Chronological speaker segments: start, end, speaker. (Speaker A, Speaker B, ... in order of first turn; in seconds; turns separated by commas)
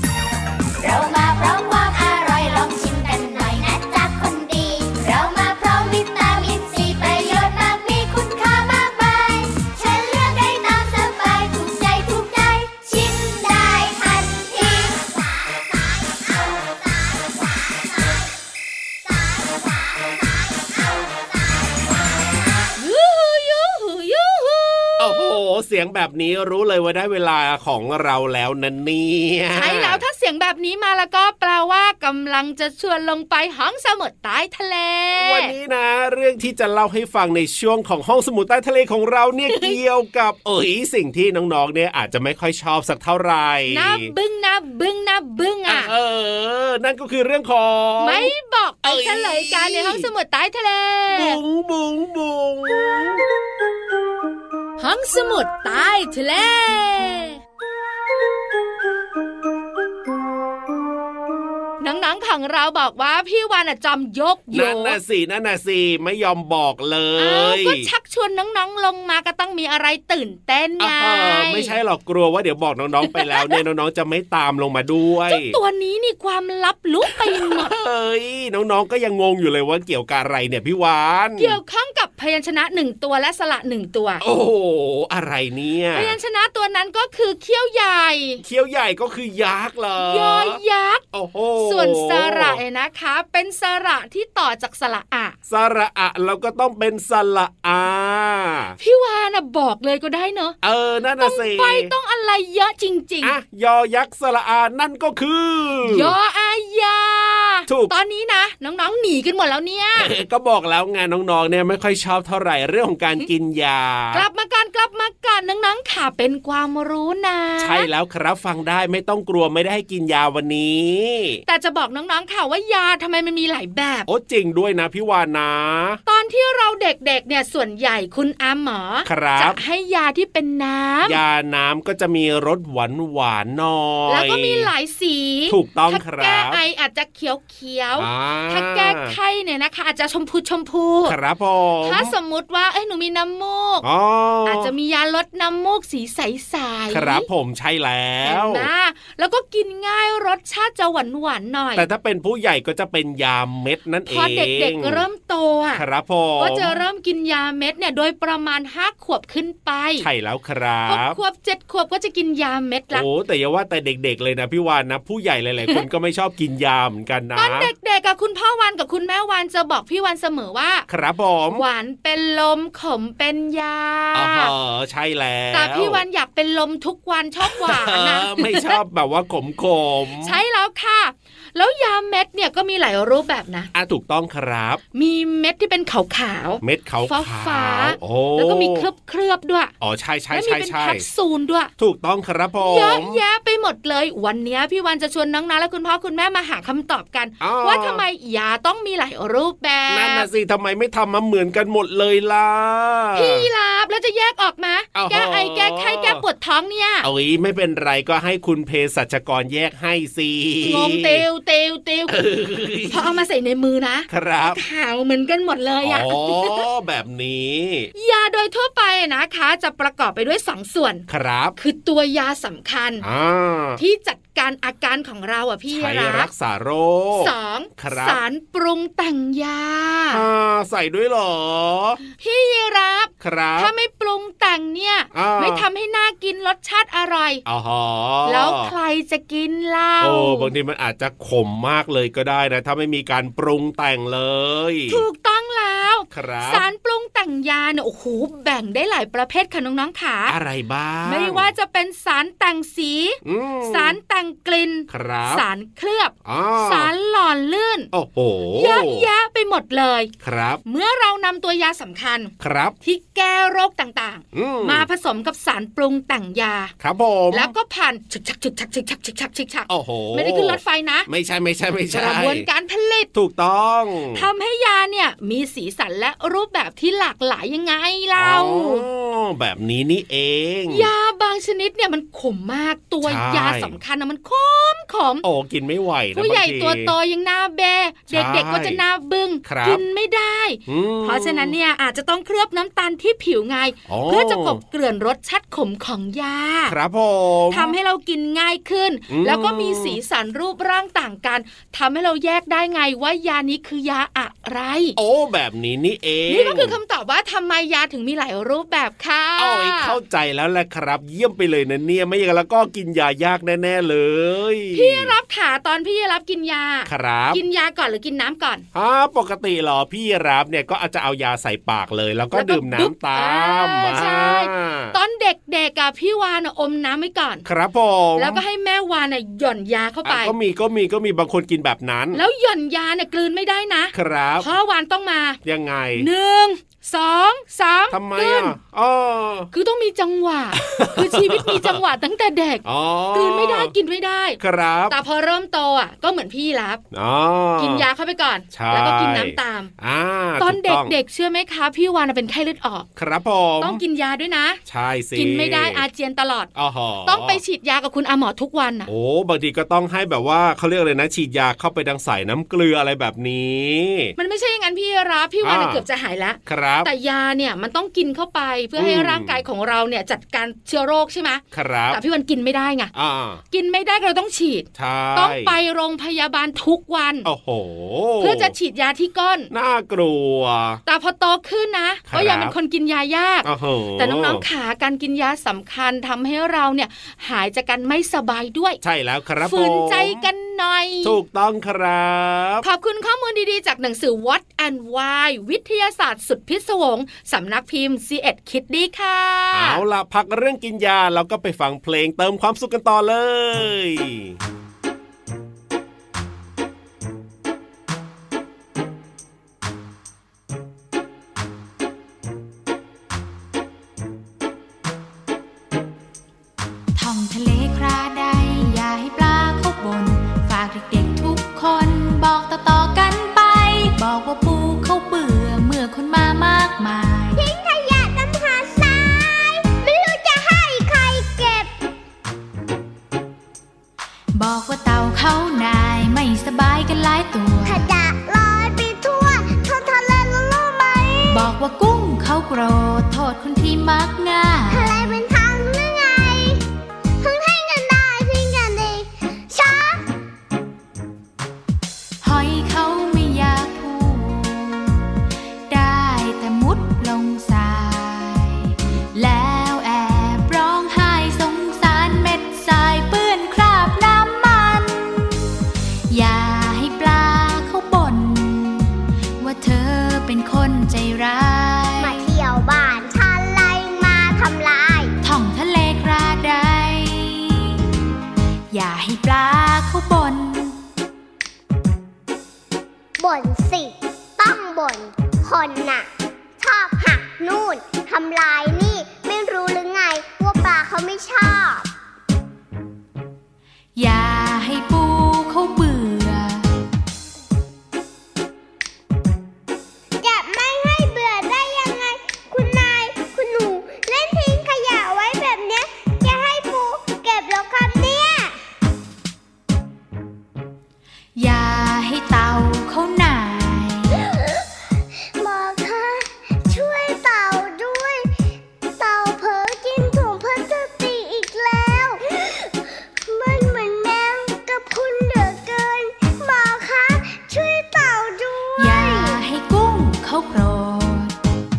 Speaker A: 0.8-15.0, Speaker B: 22.8-25.3, Speaker C: 25.0-30.0, Speaker B: 29.5-35.5, Speaker C: 35.2-44.1, Speaker B: 39.5-39.8, Speaker B: 43.7-45.9, Speaker C: 45.7-48.3, Speaker B: 48.0-51.4, Speaker C: 48.8-50.1, Speaker C: 51.1-53.2, Speaker B: 54.8-57.4, Speaker B: 61.8-65.0, Speaker C: 64.5-67.9, Speaker B: 67.2-71.7, Speaker C: 70.8-75.6, Speaker B: 73.0-73.6, Speaker B: 75.3-77.7, Speaker C: 77.3-81.6, Speaker B: 81.4-84.2, Speaker C: 84.2-86.2, Speaker B: 85.9-88.4, Speaker C: 88.4-90.6, Speaker B: 90.0-91.0, Speaker C: 91.1-92.6, Speaker B: 91.6-95.3, Speaker C: 95.5-98.8, Speaker B: 98.8-100.5, Speaker C: 100.6-101.9, Speaker B: 101.2-103.3, Speaker C: 103.2-106.1, Speaker B: 105.8-110.1, Speaker C: 107.7-107.9, Speaker C: 110.0-114.2, Speaker B: 114.1-117.9, Speaker C: 117.6-121.4, Speaker B: 121.5-124.1, Speaker C: 124.1-126.0, Speaker B: 126.0-131.2, Speaker C: 129.1-129.6, Speaker C: 131.0-134.7, Speaker B: 134.1-141.1, Speaker C: 135.5-136.6, Speaker C: 138.0-139.1, Speaker C: 141.0-142.1, Speaker B: 141.8-143.8, Speaker C: 143.8-144.7, Speaker B: 144.4-147.3, Speaker C: 146.9-148.7, Speaker B: 148.2-151.8, Speaker C: 151.8-155.0, Speaker B: 154.1-155.8, Speaker C: 155.7-156.8, Speaker B: 156.4-160.1, Speaker C: 160.0-161.2, Speaker B: 160.9-163.0, Speaker C: 162.9-167.7, Speaker B: 167.3-170.8, Speaker C: 170.9-171.6, Speaker B: 171.5-174.5, Speaker C: 174.1-176.0, Speaker B: 175.5-178.8, Speaker C: 177.4-180.4, Speaker B: 180.2-183.7, Speaker C: 183.7-184.8, Speaker B: 184.9-189.7, Speaker C: 186.6-188.9, Speaker C: 189.8-191.0, Speaker B: 190.3-191.7, Speaker C: 191.8-193.2, Speaker B: 192.6-200.3, Speaker C: 197.4-198.0, Speaker C: 199.9-203.5, Speaker B: 203.1-207.1, Speaker C: 204.9-206.2, Speaker C: 207.0-211.2, Speaker B: 210.6-212.2, Speaker C: 212.1-213.2, Speaker B: 212.9-216.6, Speaker C: 214.1-214.6, Speaker C: 215.8-217.9, Speaker B: 217.9-221.0, Speaker C: 221.1-221.6, Speaker B: 221.6-223.0, Speaker C: 223.0-223.8, Speaker B: 223.8-226.3, Speaker C: 225.7-228.2, Speaker B: 227.1-230.2, Speaker C: 230.1-232.0, Speaker B: 232.2-237.4, Speaker C: 233.2-233.7, Speaker C: 235.1-235.6, Speaker C: 237.4-238.7, Speaker B: 238.2-240.5, Speaker C: 240.0-245.0, Speaker B: 244.9-250.3, Speaker C: 246.1-246.6, Speaker C: 250.3-251.5, Speaker B: 251.0-257.9, Speaker C: 253.2-253.9, Speaker C: 254.9-255.4, Speaker C: 256.2-256.9, Speaker C: 257.9-259.1, Speaker B: 258.6-260.1, Speaker C: 260.2-260.6, Speaker B: 260.6-266.7, Speaker C: 262.4-262.8, Speaker C: 264.3-264.9, Speaker C: 266.8-267.5, Speaker B: 267.3-271.1, Speaker C: 269.7-272.4, Speaker B: 271.9-273.1, Speaker C: 273.1-274.3, Speaker B: 274.1-278.8, Speaker C: 278.1-280.9, Speaker B: 280.7-285.2, Speaker C: 283.0-283.8, Speaker C: 285.2-286.9, Speaker B: 286.1-296.7, Speaker C: 288.1-288.8, Speaker C: 289.4-289.8, Speaker C: 290.7-291.5, Speaker C: 293.9-294.6, Speaker C: 296.7-297.7, Speaker B: 297.5-305.0, Speaker C: 299.1-300.0, Speaker C: 305.0-306.8, Speaker B: 306.3-310.0, Speaker C: 309.4-315.1, Speaker B: 314.7-318.6, Speaker C: 316.9-317.4, Speaker C: 318.7-324.9, Speaker B: 322.3-327.4, Speaker C: 327.4-328.4, Speaker B: 328.2-330.3, Speaker C: 330.0-332.2, Speaker B: 332.1-335.4, Speaker C: 333.9-334.5, Speaker C: 335.4-336.1, Speaker B: 335.9-338.5, Speaker C: 337.9-339.5, Speaker B: 339.5-346.8, Speaker C: 340.6-341.8, Speaker C: 342.6-343.7, Speaker C: 344.4-344.9, Speaker C: 346.9-347.8, Speaker B: 347.6-349.7, Speaker C: 348.5-350.9, Speaker B: 350.4-352.9, Speaker C: 352.9-353.8, Speaker B: 353.6-354.6, Speaker C: 354.7-355.8, Speaker B: 355.1-356.5, Speaker C: 356.6-357.4, Speaker B: 357.1-358.9, Speaker C: 358.9-364.1, Speaker B: 364.2-372.9, Speaker C: 365.4-365.8, Speaker C: 366.4-366.9, Speaker C: 368.8-369.4, Speaker C: 371.5-372.0, Speaker C: 372.9-373.4, Speaker B: 373.5-377.3, Speaker C: 374.8-375.5, Speaker C: 377.2-378.5, Speaker B: 378.2-379.5, Speaker C: 379.5-380.8, Speaker B: 380.9-388.8, Speaker C: 382.1-382.5, Speaker C: 383.4-384.4, Speaker C: 388.8-390.2, Speaker B: 389.4-391.2, Speaker C: 391.0-392.6, Speaker B: 392.6-399.8, Speaker C: 399.5-404.3, Speaker D: 416.9-427.4, Speaker E: 427.4-431.8, Speaker D: 434.3-437.9, Speaker E: 437.6-441.5, Speaker D: 441.3-445.2, Speaker E: 444.7-446.6, Speaker E: 447.2-450.1, Speaker D: 452.2-455.0, Speaker D: 455.7-465.3, Speaker D: 466.1-472.3, Speaker E: 472.0-475.1, Speaker D: 475.2-477.8, Speaker D: 478.7-480.8, Speaker E: 483.2-491.9, Speaker D: 493.9-496.6, Speaker E: 500.2-508.6, Speaker D: 511.4-514.2, Speaker E: 515.4-518.3, Speaker E: 519.0-529.4, Speaker D: 528.8-531.3